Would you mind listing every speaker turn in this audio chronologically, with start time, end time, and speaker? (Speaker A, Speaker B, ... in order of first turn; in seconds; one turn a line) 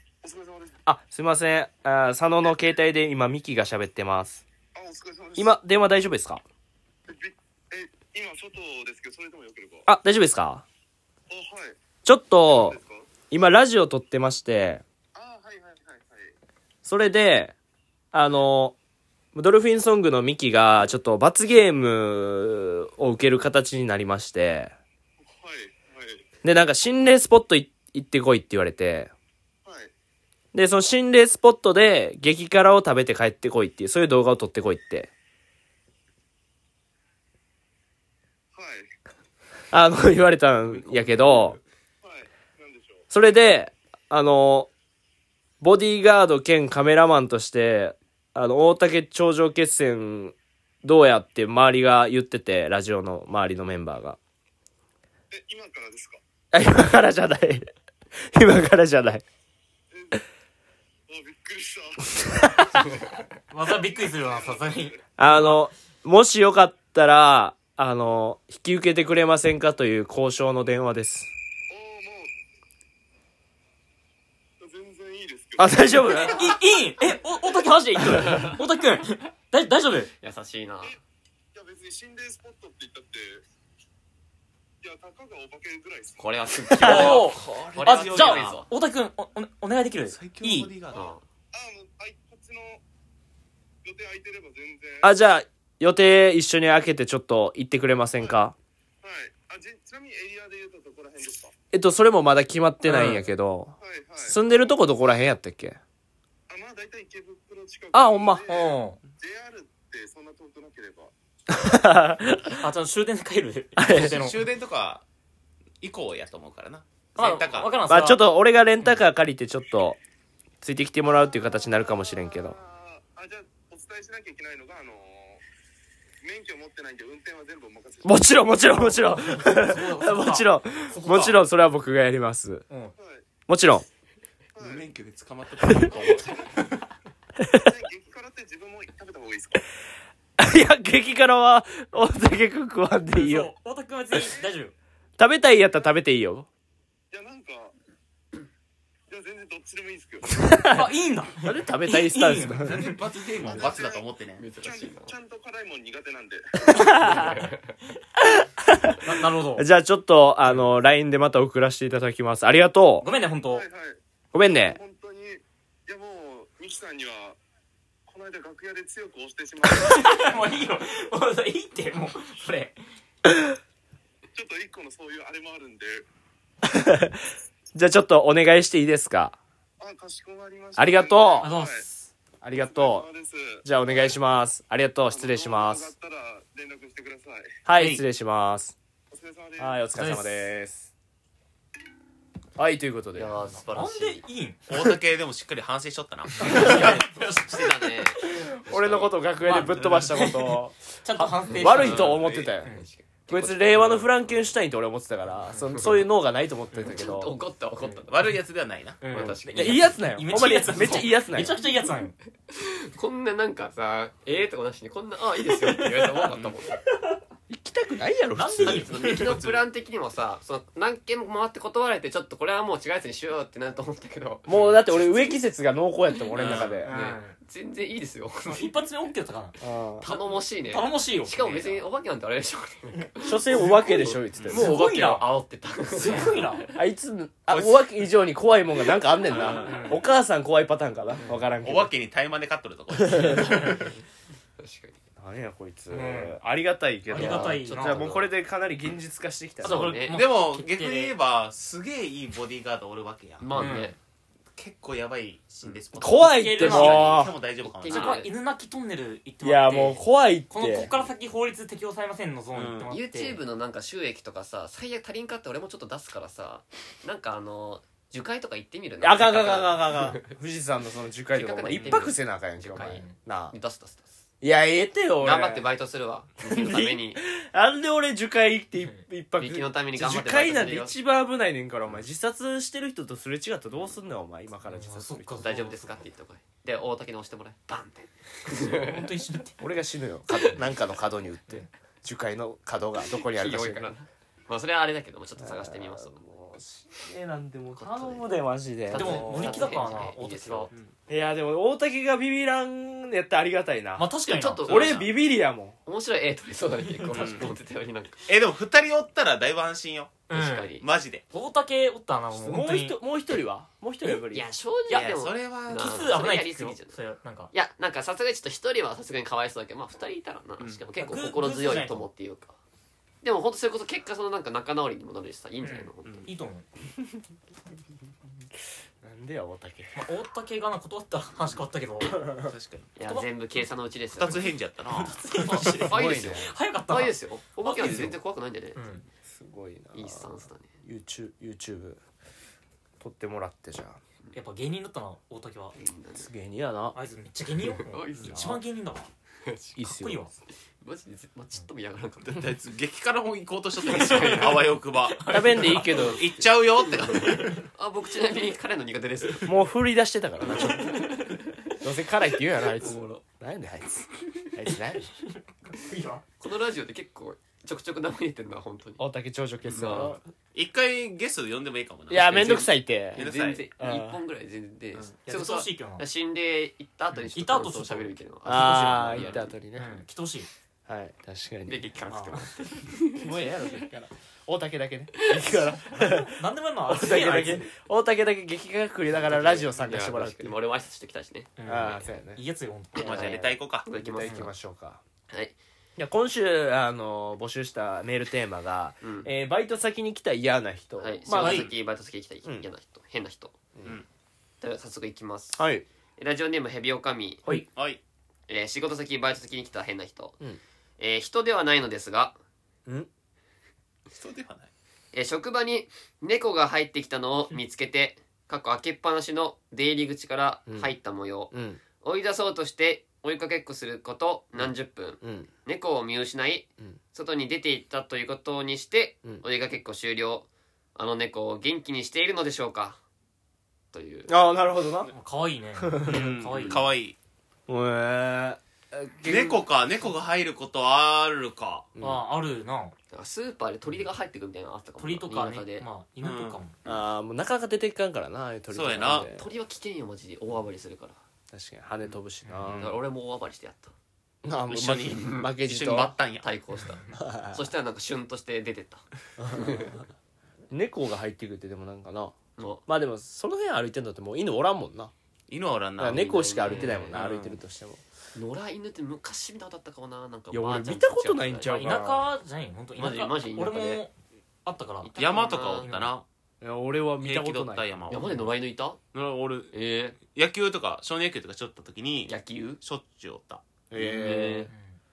Speaker A: 0.2-0.8
Speaker B: 0.8-4.4
Speaker A: 4.7-5.5
Speaker B: 5.4-6.4
Speaker A: 7.1-9.8
Speaker B: 9.9-10.6
Speaker A: 11.3-11.8
Speaker B: 12.0-12.8
Speaker A: 12.4-13.1
Speaker B: 13.3-14.8
Speaker A: 15.1-16.3
Speaker B: 16.8-17.5
Speaker B: 18.1-18.8
Speaker B: 19.3-24.7
Speaker A: 25.3-26.2
Speaker B: 26.4-29.1
Speaker A: 29.6-29.9
Speaker B: 30.5-35.1
Speaker A: 38.5-38.9
Speaker B: 39.7-41.6
Speaker C: 40.8-41.6
Speaker A: 42.0-43.0
Speaker B: 43.1-44.7
Speaker B: 45.6-54.2
Speaker A: 55.3-56.2
Speaker B: 56.5-59.2
Speaker A: 59.9-60.2
Speaker A: 61.1-62.9
Speaker B: 62.2-62.8
Speaker D: 63.5-65.6
Speaker A: 63.9-65.0
Speaker B: 65.2-71.3
Speaker A: 71.7-72.3
Speaker A: 74.6-76.4
Speaker B: 75.6-76.4
Speaker D: 76.1-80.1
Speaker C: 80.2-81.0
Speaker A: 81.5-83.4
Speaker A: 84.8-86.2
Speaker C: 86.2-88.7
Speaker B: 86.8-87.2
Speaker E: 86.8-88.6
Speaker D: 86.8-90.7
Speaker E: 90.1-91.1
Speaker C: 90.9-91.2
Speaker A: 91.0-92.8
Speaker A: 93.8-95.1
Speaker B: 95.0-98.5
Speaker A: 99.0-101.5
Speaker B: 101.7-105.8
Speaker D: 102.8-103.2
Speaker A: 103.8-104.7
Speaker A: 106.5-111.1
Speaker B: 107.9-108.4
Speaker D: 108.5-109.0
Speaker B: 111.5-112.6
Speaker D: 112.6-114.4
Speaker B: 113.8-114.2
Speaker E: 113.9-115.0
Speaker E: 115.8-117.7
Speaker D: 117.2-118.2
Speaker B: 117.9-120.0
Speaker B: 120.6-122.6
Speaker A: 121.2-125.4
Speaker A: 126.2-128.2
Speaker B: 128.0-132.6
Speaker D: 129.1-131.4
Speaker A: 133.0-133.2
Speaker B: 133.5-133.8
Speaker A: 134.5-134.9
Speaker E: 134.6-136.7
Speaker B: 135.6-135.9
Speaker A: 135.7-136.6
Speaker B: 137.4-137.7
Speaker A: 137.6-139.6
Speaker B: 140.4-143.5
Speaker D: 143.1-144.7
Speaker A: 144.2-144.5
Speaker B: 145.2-146.5
Speaker A: 147.1-147.7
Speaker A: 149.1-150.5
Speaker B: 150.3-150.9
Speaker D: 150.7-153.0
Speaker B: 151.4-152.8
Speaker E: 152.5-154.4
Speaker A: 153.4-154.1
Speaker C: 153.5-153.8
Speaker C: 154.4-155.1
Speaker A: 154.6-157.3
Speaker B: 156.6-157.3
Speaker C: 156.9-157.8
Speaker B: 158.2-163.1
Speaker D: 159.0-159.7
Speaker D: 163.0-163.7
Speaker A: 163.4-167.4
Speaker B: 164.3-164.8
Speaker A: 168.1-170.3
Speaker D: 169.8-172.8
Speaker A: 174.3-176.0
Speaker B: 176.6-177.2
Speaker B: 177.7-179.4
Speaker A: 179.8-181.8
Speaker B: 180.8-181.5
Speaker D: 181.4-182.1
Speaker B: 182.4-183.1
Speaker A: 182.6-183.6
Speaker B: 183.6-185.9
Speaker A: 185.1-187.6
Speaker B: 187.7-188.7
Speaker D: 187.7-188.0
Speaker A: 189.1-189.8
Speaker B: 189.6-190.9
Speaker D: 189.9-190.5
Speaker B: 192.6-193.4
Speaker C: 193.2-194.2
Speaker D: 193.7-194.7
Speaker E: 194.7-197.0
Speaker D: 196.4-198.5
Speaker C: 196.5-199.2
Speaker B: 198.6-200.8
Speaker D: 199.4-202.8
Speaker C: 201.5-204.0
Speaker B: 201.5-207.3
Speaker E: 201.8-202.3
Speaker C: 205.7-206.0
Speaker C: 206.8-208.2
Speaker E: 207.8-209.0
Speaker D: 209.0-212.2
Speaker C: 209.0-210.0
Speaker B: 209.5-211.6
Speaker C: 212.5-216.8
Speaker D: 215.7-216.3
Speaker E: 216.3-216.5
Speaker B: 217.5-219.0
Speaker D: 218.3-219.6
Speaker C: 218.6-224.5
Speaker B: 224.5-226.9
Speaker E: 226.3-226.7
Speaker D: 226.5-227.4
Speaker C: 226.5-228.8
Speaker D: 228.4-231.8
Speaker B: 229.6-230.1
Speaker C: 230.0-236.8
Speaker E: 231.4-231.7
Speaker B: 233.2-234.8
Speaker E: 234.3-234.7
Speaker D: 234.5-235.3
Speaker D: 235.9-236.7
Speaker B: 236.7-241.9
Speaker E: 237.5-237.9
Speaker C: 239.3-239.8
Speaker E: 239.3-239.7
Speaker D: 239.5-240.0
Speaker E: 241.6-243.8
Speaker B: 243.1-243.6
Speaker D: 243.4-243.7
Speaker C: 244.6-245.0
Speaker B: 245.2-249.9
Speaker D: 245.9-246.4
Speaker D: 247.1-248.2
Speaker C: 247.1-248.3
Speaker C: 249.6-250.2
Speaker D: 249.6-251.1
Speaker E: 250.1-253.8
Speaker C: 253.4-254.0
Speaker D: 253.6-253.9
Speaker E: 254.6-258.2
Speaker B: 255.9-257.3
Speaker D: 256.1-257.3
Speaker C: 257.6-258.3
Speaker D: 257.9-263.4
Speaker B: 259.4-260.9
Speaker E: 262.5-262.9
Speaker C: 262.9-270.3
Speaker B: 269.0-273.5
Speaker C: 271.3-274.2
Speaker D: 272.7-273.1
Speaker B: 274.4-275.6
Speaker C: 275.2-277.2
Speaker B: 276.4-285.4
Speaker C: 279.4-280.9
Speaker D: 284.7-286.0
Speaker C: 285.4-289.1
Speaker D: 288.7-289.6
Speaker B: 289.6-293.9
Speaker C: 293.2-296.2
Speaker B: 295.4-299.8
Speaker C: 297.7-298.3
Speaker C: 298.9-300.7
Speaker D: 298.9-300.7
Speaker B: 301.1-304.1
Speaker D: 304.0-304.9
Speaker C: 304.3-305.1
Speaker B: 304.7-305.8
Speaker E: 304.7-305.0
Speaker C: 305.9-308.2
Speaker E: 307.1-307.6
Speaker E: 308.2-310.3
Speaker D: 310.3-310.8
Speaker C: 310.3-310.8
Speaker E: 310.8-311.2
Speaker D: 311.3-313.0
Speaker B: 312.3-314.5
Speaker C: 314.3-316.9
Speaker E: 314.9-315.9
Speaker D: 315.7-317.5
Speaker C: 317.5-322.6
Speaker D: 321.0-322.1
Speaker C: 323.2-326.3
Speaker D: 325.6-326.6
Speaker E: 326.0-326.3
Speaker B: 329.0-330.0
Speaker D: 329.9-332.3
Speaker E: 332.4-332.9
Speaker C: 332.9-334.5
Speaker E: 334.1-335.2
Speaker D: 335.1-337.1
Speaker C: 335.3-338.8
Speaker B: 335.6-336.5
Speaker D: 337.6-338.1
Speaker B: 337.8-338.1
Speaker D: 338.7-339.1
Speaker B: 339.3-342.0
Speaker C: 339.9-340.7
Speaker B: 343.0-344.0
Speaker D: 344.3-345.8
Speaker C: 345.8-346.3
Speaker B: 346.2-347.0
Speaker D: 346.9-349.1
Speaker C: 347.8-348.5
Speaker B: 348.2-348.6
Speaker C: 349.4-349.8
Speaker B: 349.8-350.3
Speaker D: 349.8-350.3
Speaker C: 350.8-352.4
Speaker E: 352.2-357.6
Speaker C: 353.8-354.7
Speaker D: 355.2-356.0
Speaker B: 355.3-356.4
Speaker C: 356.8-359.6
Speaker B: 359.4-361.0
Speaker C: 360.4-361.7
Speaker B: 361.8-365.1
Speaker C: 362.6-363.2
Speaker D: 365.2-366.2
Speaker C: 366.4-369.0
Speaker B: 369.0-370.2
Speaker C: 369.6-370.2
Speaker E: 370.5-373.6
Speaker B: 372.1-374.2
Speaker C: 373.1-379.5
Speaker D: 375.2-376.1
Speaker D: 377.1-380.5
Speaker B: 378.4-380.0
Speaker B: 380.9-381.9
Speaker C: 381.7-383.2
Speaker D: 382.1-382.5
Speaker B: 383.1-390.6
Speaker C: 385.2-385.8
Speaker D: 385.9-387.7
Speaker C: 389.2-392.1
Speaker D: 391.6-393.3
Speaker B: 391.6-392.4
Speaker C: 392.9-394.5
Speaker E: 393.0-393.9
Speaker B: 393.2-395.0
Speaker C: 395.3-395.6
Speaker B: 396.0-401.7
Speaker C: 399.0-399.3
Speaker C: 401.0-403.6
Speaker D: 401.3-401.7
Speaker E: 401.4-401.7
Speaker C: 404.6-405.6
Speaker B: 405.6-405.9
Speaker C: 406.2-407.4
Speaker E: 407.7-408.0
Speaker C: 408.5-410.4
Speaker C: 411.0-412.4
Speaker E: 414.1-414.7
Speaker C: 415.1-433.0
Speaker B: 420.7-420.9
Speaker B: 421.5-421.8
Speaker B: 425.2-425.5
Speaker C: 433.9-434.3
Speaker B: 434.3-435.1
Speaker D: 435.1-436.9
Speaker B: 435.8-436.8
Speaker E: 436.1-437.1
Speaker B: 437.7-439.7
Speaker E: 439.2-441.9
Speaker B: 441.9-442.2
Speaker D: 442.0-442.9
Speaker C: 443.1-445.9
Speaker D: 445.0-446.7
Speaker E: 446.2-446.6
Speaker B: 446.8-449.5
Speaker E: 448.7-449.3
Speaker C: 449.3-451.2
Speaker B: 451.5-452.9
Speaker E: 452.6-453.0
Speaker C: 452.8-453.9
Speaker B: 454.4-456.1
Speaker E: 454.7-456.5
Speaker C: 455.1-455.5
Speaker C: 456.4-460.0
Speaker B: 457.1-457.6
Speaker B: 459.4-460.0
Speaker B: 460.7-462.3
Speaker C: 462.6-462.8
Speaker B: 462.9-465.1
Speaker E: 465.5-467.6
Speaker B: 466.0-468.0
Speaker C: 466.1-467.1
Speaker C: 468.3-472.0
Speaker B: 470.5-472.2
Speaker D: 471.6-474.1
Speaker C: 473.0-474.0
Speaker D: 474.6-475.1
Speaker C: 475.0-475.9
Speaker E: 475.2-476.2
Speaker D: 475.8-476.1
Speaker B: 476.6-477.9
Speaker E: 477.2-478.5
Speaker C: 478.1-479.0
Speaker E: 479.1-479.7
Speaker C: 479.7-480.2
Speaker E: 480.2-483.6
Speaker C: 482.2-482.8
Speaker B: 483.9-484.7
Speaker C: 483.9-484.7
Speaker D: 484.2-485.0